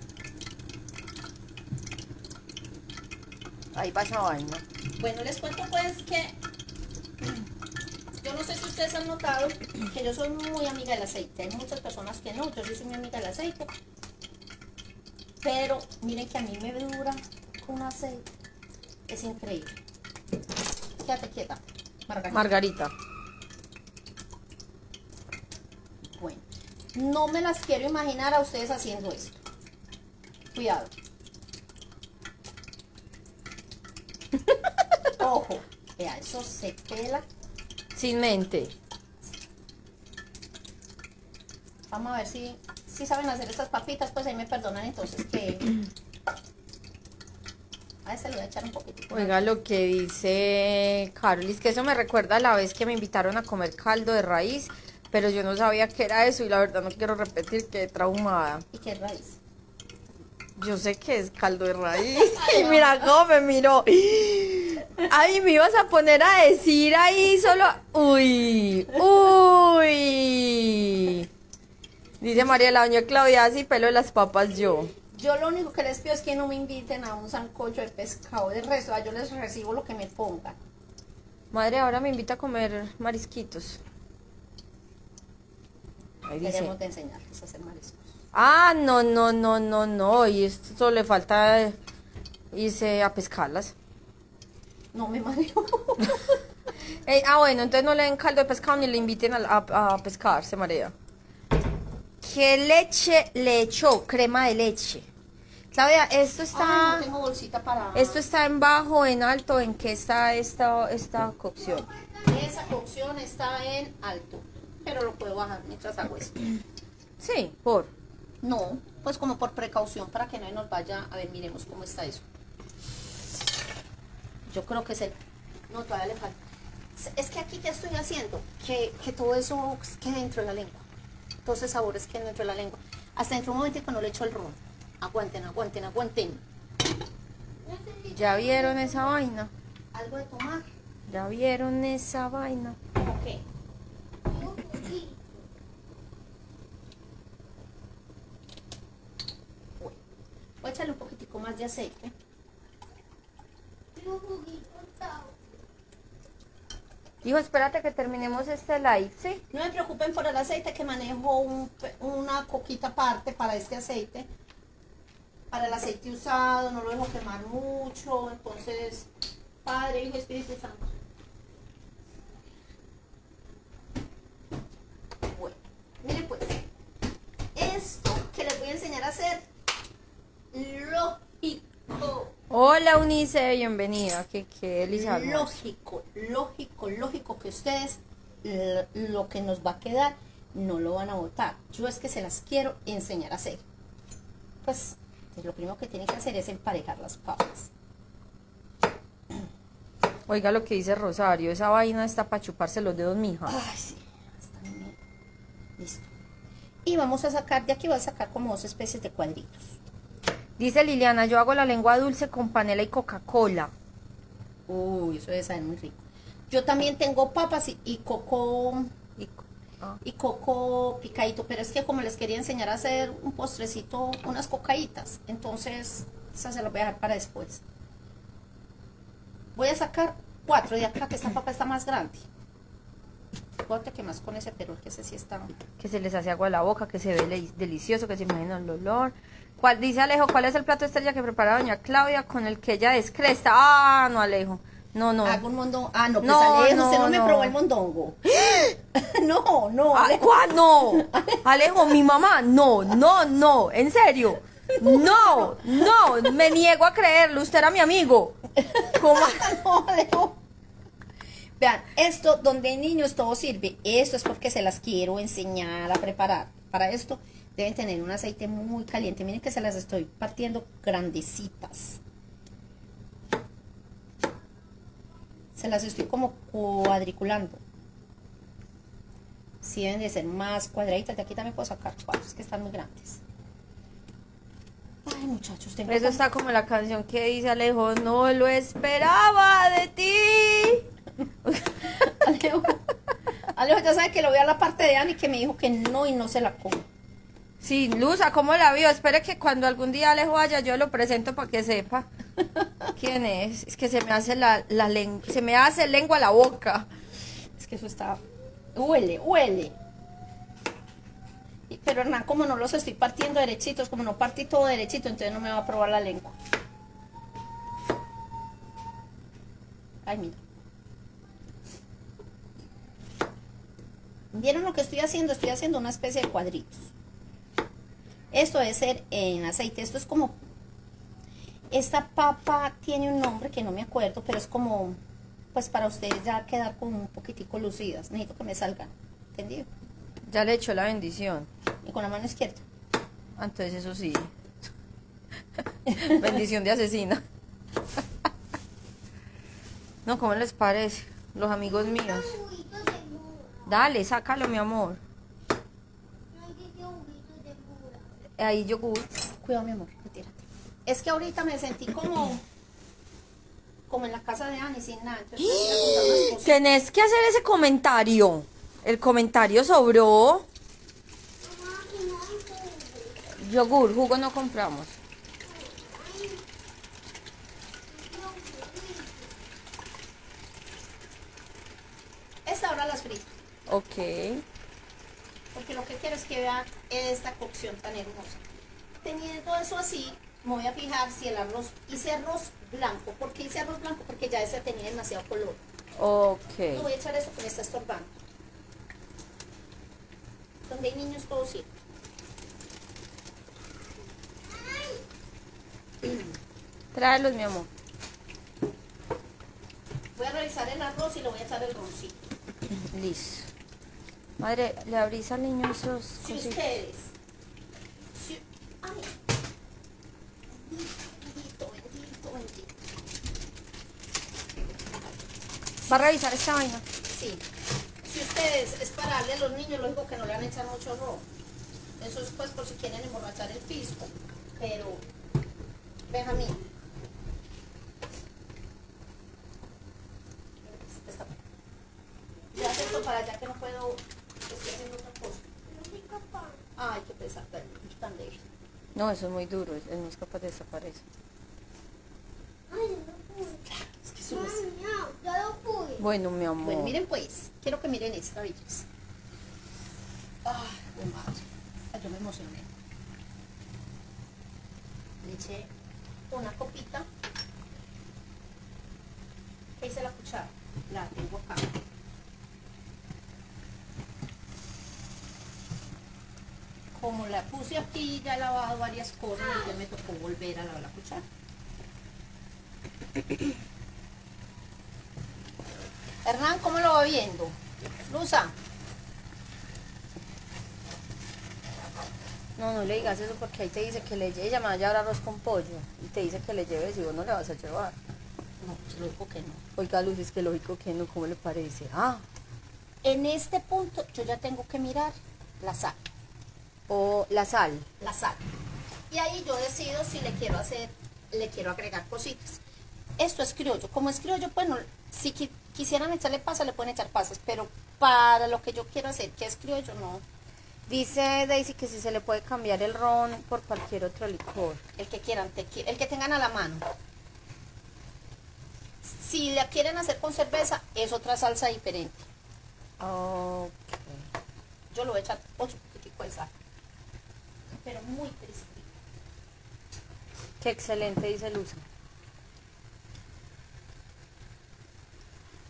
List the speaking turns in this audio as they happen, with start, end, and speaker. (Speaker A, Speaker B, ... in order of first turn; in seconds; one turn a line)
Speaker A: 3.7-4.6
Speaker B: 5.0-6.3
Speaker B: 8.2-13.7
Speaker B: 15.4-18.2
Speaker B: 19.1-19.8
Speaker B: 21.0-22.5
Speaker A: 22.3-22.9
Speaker B: 26.2-29.4
Speaker B: 30.5-30.9
Speaker B: 35.2-37.2
Speaker A: 37.9-38.7
Speaker B: 41.9-45.7
Speaker B: 48.0-49.5
Speaker A: 49.1-58.6
Speaker B: 58.7-59.4
Speaker A: 60.6-71.3
Speaker B: 62.1-63.1
Speaker A: 72.2-74.9
Speaker B: 75.1-80.5
Speaker A: 81.5-83.8
Speaker A: 86.2-86.7
Speaker B: 86.4-88.1
Speaker A: 88.3-91.8
Speaker A: 92.5-93.7
Speaker B: 94.9-96.4
Speaker A: 97.0-100.9
Speaker A: 102.2-105.0
Speaker A: 105.7-107.0
Speaker B: 106.5-108.2
Speaker A: 107.9-111.9
Speaker B: 112.2-116.6
Speaker A: 117.2-117.9
Speaker B: 118.4-122.2
Speaker B: 124.5-125.2
Speaker B: 125.7-126.3
Speaker B: 127.0-130.8
Speaker B: 131.4-136.4
Speaker C: 137.7-139.1
Speaker B: 137.7-138.4
Speaker A: 138.1-139.5
Speaker B: 139.9-140.7
Speaker A: 141.1-142.8
Speaker B: 142.9-143.4
Speaker C: 144.3-145.2
Speaker B: 150.6-152.1
Speaker C: 153.9-155.3
Speaker A: 157.2-159.4
Speaker B: 159.5-164.3
Speaker B: 165.5-169.1
Speaker B: 169.6-170.9
Speaker B: 175.3-176.6
Speaker B: 177.5-179.5
Speaker B: 180.5-182.3
Speaker A: 182.5-185.5
Speaker B: 184.9-193.6
Speaker B: 194.6-197.7
Speaker A: 200.3-203.6
Speaker B: 203.5-204.9
Speaker B: 205.8-206.1
Speaker B: 206.8-209.8
Speaker A: 210.6-213.7
Speaker B: 214.7-218.9
Speaker A: 219.2-220.0
Speaker B: 220.0-227.6
Speaker B: 229.6-232.3
Speaker B: 233.7-235.5
Speaker A: 235.8-245.4
Speaker B: 245.2-251.4
Speaker A: 246.2-247.6
Speaker A: 249.9-259.6
Speaker B: 254.8-256.3
Speaker B: 258.6-260.4
Speaker B: 261.6-272.0
Speaker B: 275.6-277.6
Speaker B: 279.6-283.2
Speaker B: 285.0-286.2
Speaker A: 285.9-290.9
Speaker A: 291.4-291.9
Speaker B: 291.8-292.8
Speaker B: 293.5-296.9
Speaker A: 297.6-302.1
Speaker B: 302.6-302.9
Speaker A: 302.9-306.9
Speaker B: 307.6-308.2
Speaker B: 308.7-309.7
Speaker B: 311.7-316.4
Speaker B: 320.0-320.4
Speaker B: 324.3-326.9
Speaker B: 328.3-330.4
Speaker B: 331.7-335.0
Speaker B: 335.5-339.7
Speaker A: 340.3-341.5
Speaker B: 341.8-342.6
Speaker A: 343.4-344.3
Speaker A: 345.9-347.2
Speaker A: 350.0-352.3
Speaker C: 351.6-353.7
Speaker A: 353.7-355.0
Speaker C: 356.3-358.0
Speaker A: 358.4-359.1
Speaker B: 359.4-362.4
Speaker B: 363.9-366.8
Speaker A: 365.4-370.4
Speaker C: 371.4-373.2
Speaker A: 373.4-375.0
Speaker C: 375.5-376.4
Speaker C: 377.9-379.3
Speaker B: 382.4-383.3
Speaker A: 383.7-384.4
Speaker B: 385.5-388.4
Speaker B: 389.0-395.6
Speaker A: 396.0-396.9
Speaker B: 396.7-398.1
Speaker B: 400.7-401.7
Speaker B: 406.0-406.4
Speaker A: 406.9-407.7
Speaker B: 410.1-412.2
Speaker A: 412.9-413.5
Speaker A: 414.4-416.6
Speaker B: 416.2-417.1
Speaker B: 418.1-419.1
Speaker B: 420.6-422.7
Speaker A: 425.9-426.8
Speaker B: 427.1-427.4
Speaker B: 428.0-431.2
Speaker B: 432.0-435.0
Speaker B: 436.1-436.6
Speaker B: 440.6-441.4
Speaker B: 442.5-445.5
Speaker C: 442.6-443.0
Speaker C: 445.7-446.6
Speaker B: 446.8-448.5
Speaker A: 448.9-451.0
Speaker C: 452.7-456.0
Speaker B: 453.9-454.6
Speaker A: 456.0-456.9
Speaker B: 456.6-458.9
Speaker B: 460.4-462.7
Speaker B: 465.2-465.7
Speaker B: 466.3-467.1
Speaker B: 469.8-471.7
Speaker B: 476.9-481.2
Speaker B: 486.2-488.5
Speaker A: 492.6-497.9
Speaker B: 498.6-499.6
Speaker A: 499.8-502.2
Speaker B: 503.0-506.0
Speaker A: 506.9-507.9
Speaker B: 508.0-508.4
Speaker B: 509.1-512.6
Speaker B: 513.2-520.2
Speaker A: 520.9-524.8
Speaker B: 525.0-526.9
Speaker B: 529.0-532.2
Speaker A: 533.0-534.2
Speaker B: 534.9-536.5
Speaker B: 537.7-538.9
Speaker A: 540.6-541.8